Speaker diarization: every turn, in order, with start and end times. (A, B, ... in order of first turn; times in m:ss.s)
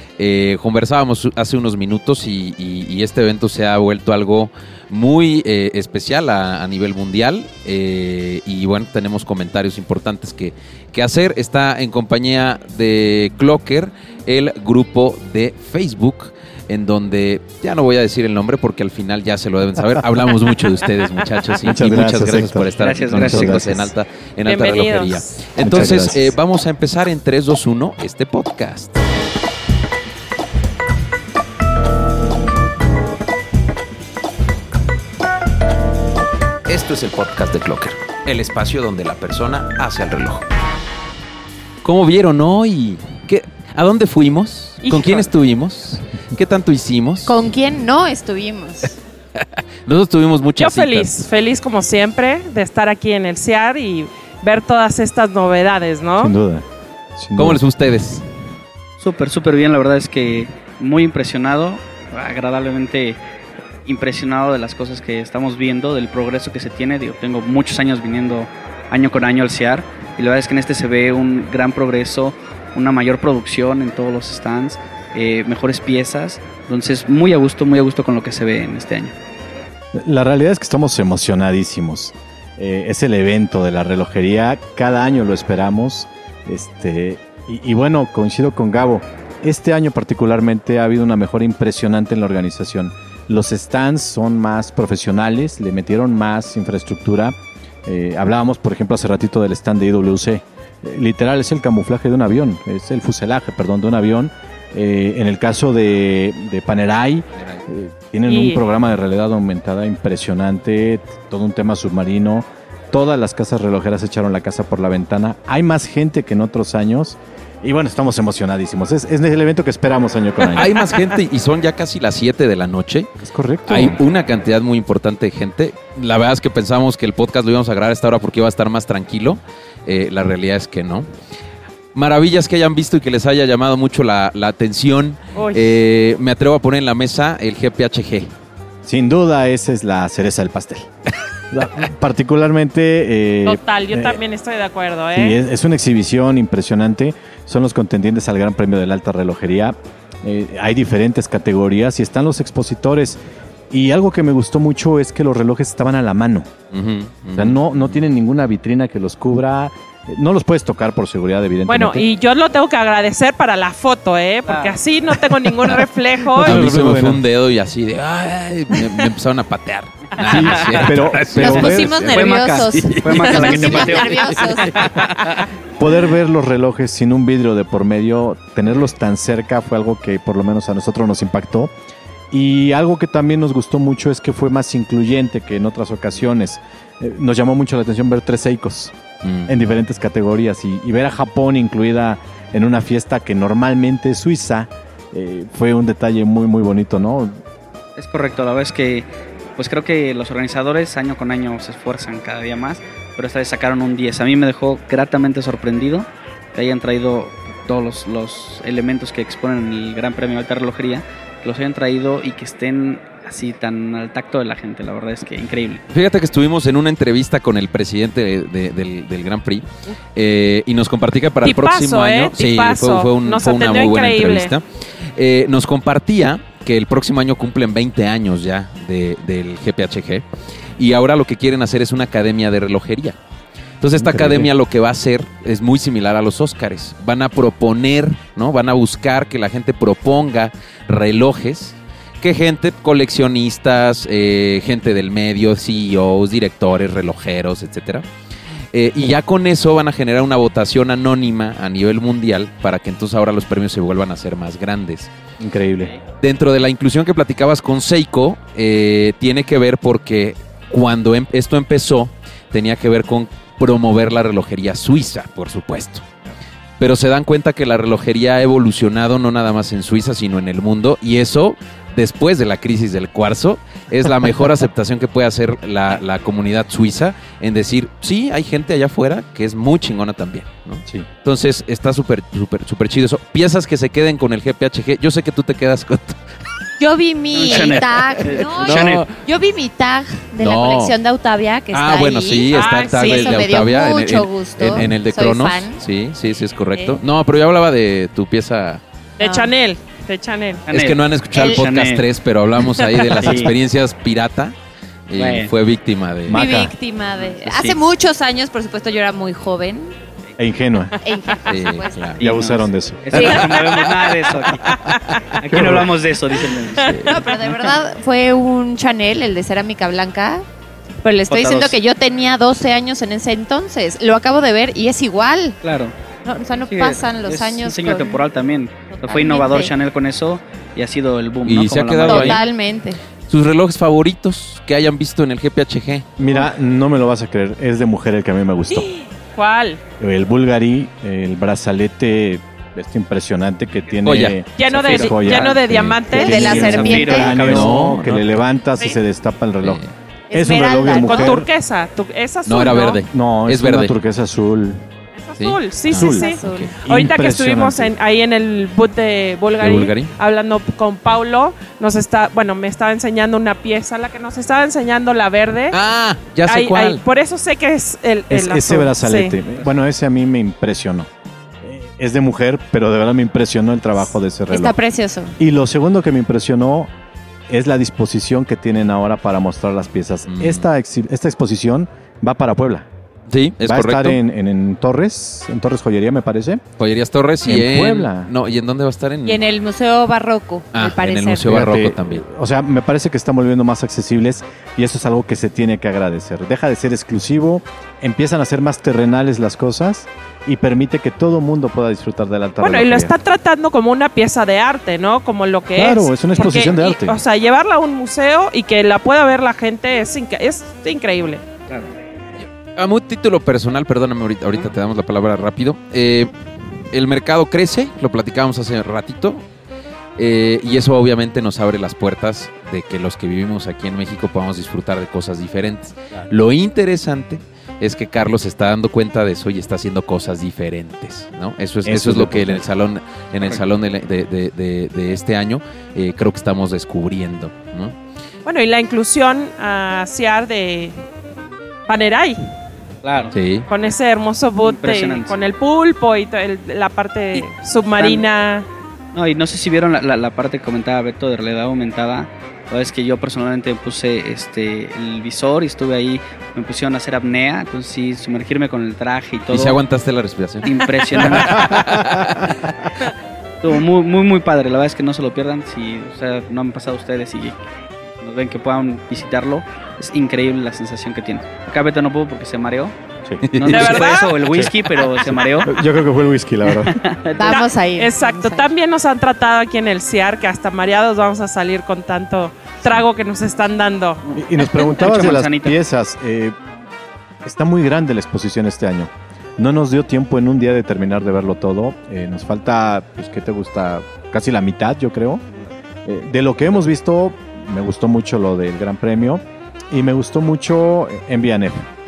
0:00.2-0:29.0 A
0:21.6-0:23.9 B
0:22.8-0:23.7 C
0:24.4-0:25.4 D
0:25.6-0:26.3 B
0:36.6-0:40.4 A
0:41.8-0:47.4 A
0:44.8-0:45.3 D
0:47.2-0:49.0 E
0:49.4-0:51.1 A
0:50.6-0:56.3 D
0:56.2-0:56.6 B
0:57.2-0:57.6 B
0:57.4-0:58.2 A
0:59.0-1:03.2 C
1:03.8-1:19.1 C
1:19.9-2:00.8 B
1:47.4-1:47.6 A
1:48.3-1:48.6 D
2:00.5-2:03.1 A
2:03.2-2:04.0 B
2:03.7-2:11.1 A
2:11.9-2:18.3 A
2:15.3-2:15.7 D
2:18.8-2:20.9 B
2:21.5-2:24.2 B
2:23.4-2:25.4 D
2:25.1-2:33.2 B
2:33.7-2:36.5 B
2:36.7-2:38.0 A
2:37.4-2:42.1 B
2:41.7-2:46.6 D
2:44.5-2:44.7 C
2:46.3-2:47.2 B
2:46.4-2:52.3 A
2:50.2-2:52.1 B
2:50.4-2:50.9 C
2:51.3-2:54.8 E
2:51.4-2:55.5 C
2:52.8-2:54.9 A
2:55.8-3:01.7 B
3:02.3-3:08.9 B
3:09.2-3:09.5 A
3:09.4-3:17.4 B
3:18.0-3:35.8 C
3:35.9-3:44.6 A
3:41.4-3:44.5 D
3:45.2-3:50.2 A
3:50.8-3:53.2 A
3:53.8-4:08.0 A
3:54.0-3:54.5 B
4:08.7-4:15.1 A
4:15.4-4:15.9 B
4:16.2-4:26.0 A
4:26.8-4:46.2 A
4:46.8-4:55.8 E
4:47.3-4:49.1 C
4:48.2-4:49.2 A
4:50.4-4:51.0 A
4:51.7-4:58.8 A
4:52.5-4:53.6 D
4:56.7-4:57.0 E
4:59.2-4:59.5 E
4:59.2-5:00.6 D
5:00.7-5:02.0 C
5:00.7-5:04.5 A
5:01.3-5:01.7 E
5:02.8-5:03.3 D
5:03.2-5:03.5 C
5:05.1-5:06.4 A
5:05.2-5:05.5 C
5:06.2-5:06.7 B
5:06.3-5:09.9 E
5:07.1-5:07.8 C
5:10.4-5:11.0 B
5:11.0-5:12.1 E
5:11.5-5:12.2 A
5:12.2-5:14.7 C
5:12.2-5:13.4 B
5:13.1-5:15.0 D
5:14.9-5:15.7 A
5:15.3-5:17.0 C
5:15.5-5:15.9 B
5:16.7-5:17.2 A
5:16.9-5:20.4 E
5:21.0-5:25.6 E
5:21.3-5:21.8 C
5:25.6-5:26.0 C
5:26.2-5:28.3 E
5:26.6-5:32.4 C
5:28.9-5:29.7 E
5:31.4-5:32.4 A
5:32.0-5:33.0 E
5:33.3-5:36.1 A
5:36.2-5:38.9 B
5:38.7-5:39.8 D
5:40.0-5:49.8 B
5:44.0-5:44.4 A
5:44.6-5:47.0 D
5:44.7-5:45.6 C
5:46.1-5:47.4 E
5:46.6-5:47.8 C
5:47.4-5:48.3 A
5:49.6-5:49.9 A
5:50.3-5:51.4 E
5:50.3-5:51.5 B
5:51.0-5:53.0 D
5:52.4-5:54.0 A
5:53.1-5:54.8 B
5:55.1-6:05.8 D
5:55.4-5:56.7 A
5:55.9-5:56.3 B
5:56.0-5:56.7 E
5:56.8-5:57.9 B
5:59.6-6:00.1 A
6:05.7-6:07.0 A
6:06.5-6:09.4 D
6:08.3-6:11.1 B
6:11.6-6:14.7 B
6:14.5-6:15.3 E
6:15.4-6:16.9 B
6:17.5-6:22.8 B
6:20.2-6:20.7 A
6:23.3-6:24.2 A
6:23.6-6:26.6 B
6:26.8-6:29.4 A
6:27.4-6:28.3 B
6:29.2-6:31.5 E
6:30.7-6:32.2 A
6:31.4-6:43.1 B
6:42.6-6:51.4 D
6:45.7-6:47.2 B
6:52.7-6:56.3 A
6:56.9-6:59.4 A
7:00.2-7:17.9 A
7:11.8-7:12.6 B
7:18.4-7:21.0 D
7:21.9-7:22.4 D
7:23.0-7:23.3 C
7:23.3-7:23.7 A
7:23.7-7:28.6 D
7:24.6-7:25.4 C
7:27.3-7:28.2 C
7:29.1-7:39.8 C
7:39.5-7:42.8 A
7:40.6-7:41.8 C
7:43.6-7:47.6 C
7:48.2-7:53.0 C
7:53.2-7:53.9 B
7:53.4-7:54.2 A
7:53.6-7:55.8 C
7:53.7-7:54.4 D
7:54.5-7:57.0 B
7:56.6-7:57.6 C
7:57.3-7:58.7 E
7:57.4-8:04.2 D
8:04.3-8:05.8 C
8:04.3-8:06.5 B
8:07.4-8:15.4 B
8:16.0-8:21.9 B